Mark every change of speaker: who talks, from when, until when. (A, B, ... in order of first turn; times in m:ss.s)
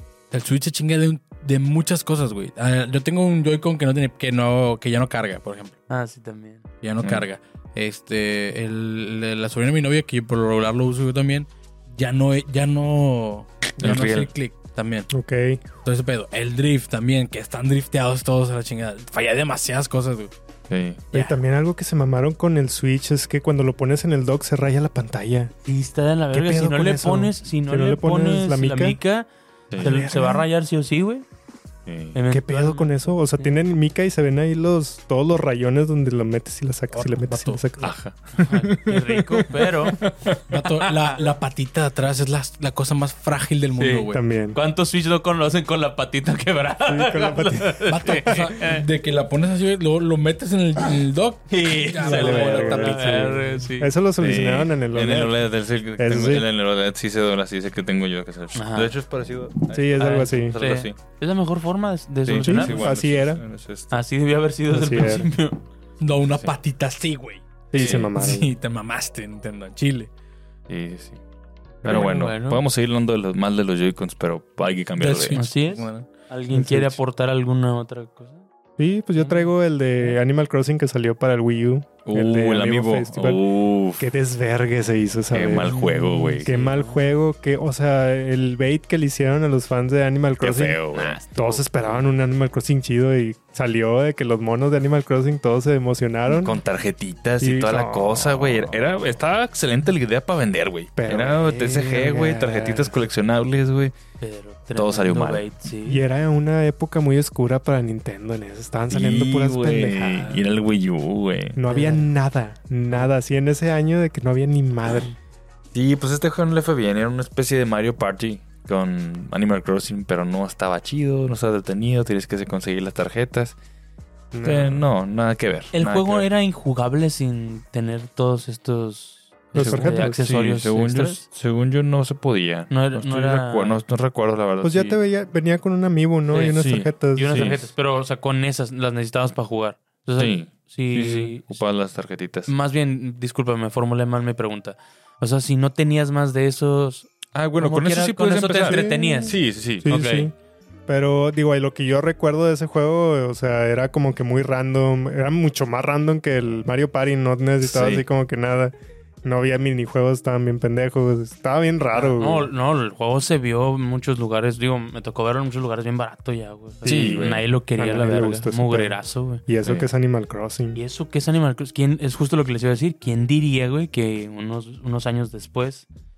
0:00.3-0:05.8 A
0:05.9-0:06.6 B
0:06.8-0:15.1 A
0:07.0-0:07.2 C
0:13.8-0:14.3 C
0:13.8-0:14.1 D
0:15.1-0:15.6 D
0:15.8-0:20.3 A
0:20.7-0:21.0 C
0:21.1-0:25.5 D
0:25.6-0:31.2 B
0:26.3-0:29.0 D
0:29.7-0:30.0 C
0:29.8-0:30.5 D
0:31.8-0:32.2 C
0:32.1-0:33.5 B
0:32.3-0:38.0 D
0:36.9-0:37.6 A
0:37.8-0:40.4 C
0:38.4-0:40.0 B
0:40.5-0:44.2 A
0:43.7-0:48.8 B
0:44.1-0:44.6 D
0:46.8-0:48.5 D
0:47.9-0:53.4 A
0:51.5-0:53.9 B
0:52.0-0:55.4 D
0:54.2-1:01.0 C
0:56.0-0:56.4 D
0:58.5-0:58.9 B
0:59.7-1:00.6 D
1:00.0-1:02.9 B
1:02.2-1:03.9 C
1:02.4-1:03.4 D
1:03.9-1:05.6 B
1:04.7-1:05.3 D
1:06.0-1:10.1 A
1:07.7-1:08.5 D
1:07.8-1:08.1 C
1:10.7-1:11.2 C
1:11.8-1:15.4 C
1:11.8-1:12.6 B
1:15.0-1:16.1 A
1:15.3-1:18.4 B
1:16.5-1:17.0 D
1:18.8-1:36.6 D
1:19.2-1:19.5 B
1:22.0-1:24.1 C
1:25.3-1:26.5 C
1:25.6-1:27.1 B
1:30.4-1:31.8 C
1:36.3-1:43.9 C
1:37.4-1:39.0 D
1:41.0-1:42.9 D
1:44.2-1:46.0 B
1:44.7-1:45.4 C
1:45.8-1:50.4 D
1:48.9-1:51.6 C
1:51.6-1:55.1 D
1:51.7-1:52.1 B
1:55.7-2:03.5 C
2:04.3-2:04.8 D
2:04.4-2:06.3 C
2:05.7-2:11.2 B
2:09.5-2:10.2 D
2:09.5-2:15.0 C
2:12.7-2:13.8 B
2:14.6-2:17.6 D
2:16.3-2:16.6 B
2:16.5-2:17.7 C
2:17.1-2:21.6 B
2:20.2-2:22.5 C
2:22.5-2:29.4 B
2:27.3-2:30.1 C
2:28.6-2:30.3 D
2:29.9-2:30.3 B
2:30.9-2:42.5 D
2:37.6-2:38.0 C
2:41.9-2:49.4 B
2:46.8-2:50.8 D
2:46.8-2:47.4 C
2:50.7-2:55.8 B